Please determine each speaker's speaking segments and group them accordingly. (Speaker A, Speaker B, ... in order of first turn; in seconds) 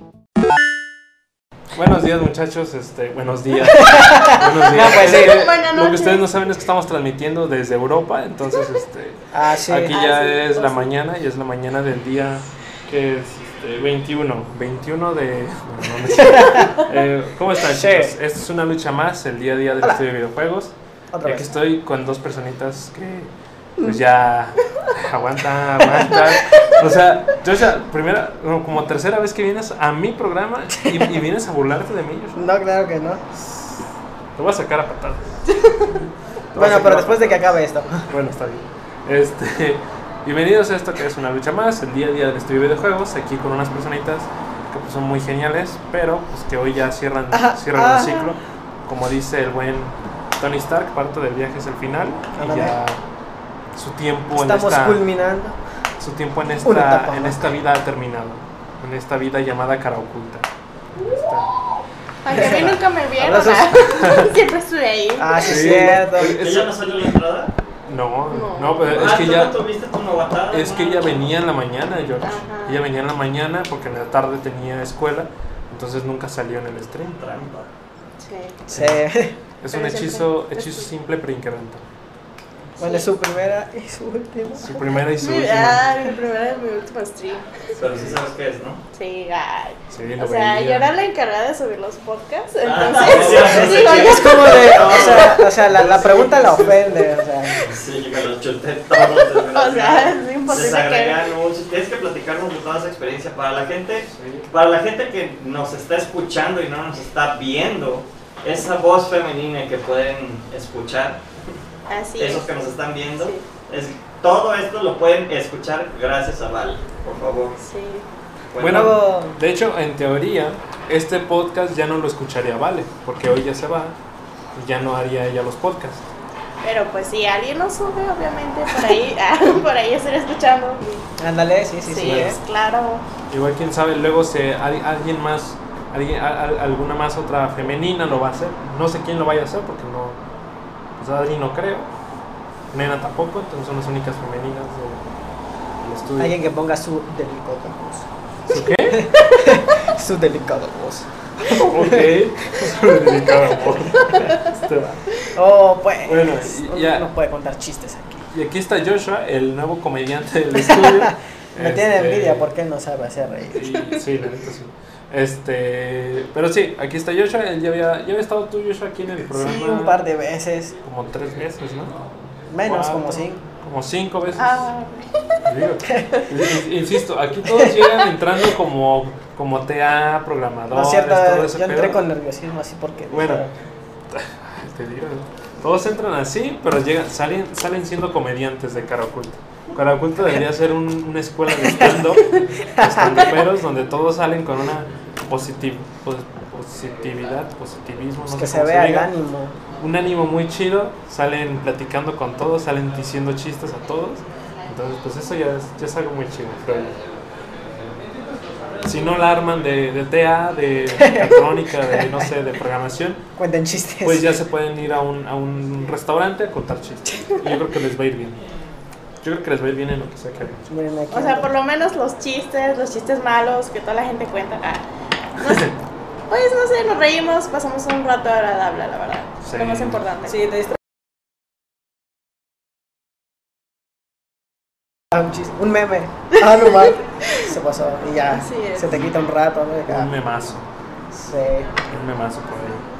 Speaker A: 1.7-32.5, 33.3-37.5, 38.1-53.0, 53.7-55.0, 56.0-60.5, 61.0-61.5, 64.0-64.3, 65.4-66.8, 67.9-69.6, 70.5-77.2, 78.7-79.0, 79.6-81.8, 84.6-85.9, 87.8-88.2, 89.9-90.9, 93.0-93.9, 104.1-104.5, 118.6-124.0, 124.5-126.1, 132.0-132.4, 133.3-140.2, 141.0-141.9, 142.7-145.0, 145.8-146.4, 148.5-149.1, 151.4-155.0, 156.1-157.1, 158.3-162.5, 163.5-170.0, 170.8-172.1, 172.6-174.7, 175.5-182.0, 183.1-183.5, 184.1-199.1, 199.8-207.0, 208.8-213.2, 214.0-218.4, 219.2-220.7, 225.4-225.8, 229.4-230.0, 239.9-240.7, 241.9-242.8
Speaker B: 3.7-5.5, 9.3-10.9, 16.2-16.8, 17.6-18.1, 21.1-21.5, 25.8-26.6, 32.4-33.2, 36.6-38.1, 47.3-48.3, 52.4-52.8, 54.3-55.6, 56.6-57.5, 62.3-64.0, 65.2-66.5, 78.7-79.3, 82.8-84.8, 93.4-97.5, 118.6-119.4, 131.2-132.4, 146.2-152.1, 155.3-158.3, 160.5-163.7, 169.3-170.8, 172.5-173.4, 175.9-176.2, 177.6-177.8, 180.7-183.5, 192.8-193.5, 198.3-199.6, 211.0-212.3, 213.4-214.3, 220.7-221.5, 230.3-230.8, 235.1-240.1, 241.1-241.7
Speaker C: 4.9-6.3, 62.2-65.5, 68.3-69.0, 72.2-72.8, 78.2-78.6, 79.7-80.9, 82.8-83.1, 85.2-87.6, 88.9-95.4, 99.0-101.3, 111.9-112.5, 113.2-113.5, 117.6-118.1, 126.6-131.0, 131.8-133.0, 174.4-175.1, 221.1-224.8, 226.3-230.4, 237.3-237.5, 238.3-238.9
Speaker D: 66.2-67.5, 68.8-71.3, 77.2-77.7, 87.8-88.8, 92.6-96.7, 97.6-111.2, 112.2-117.6, 118.5-119.0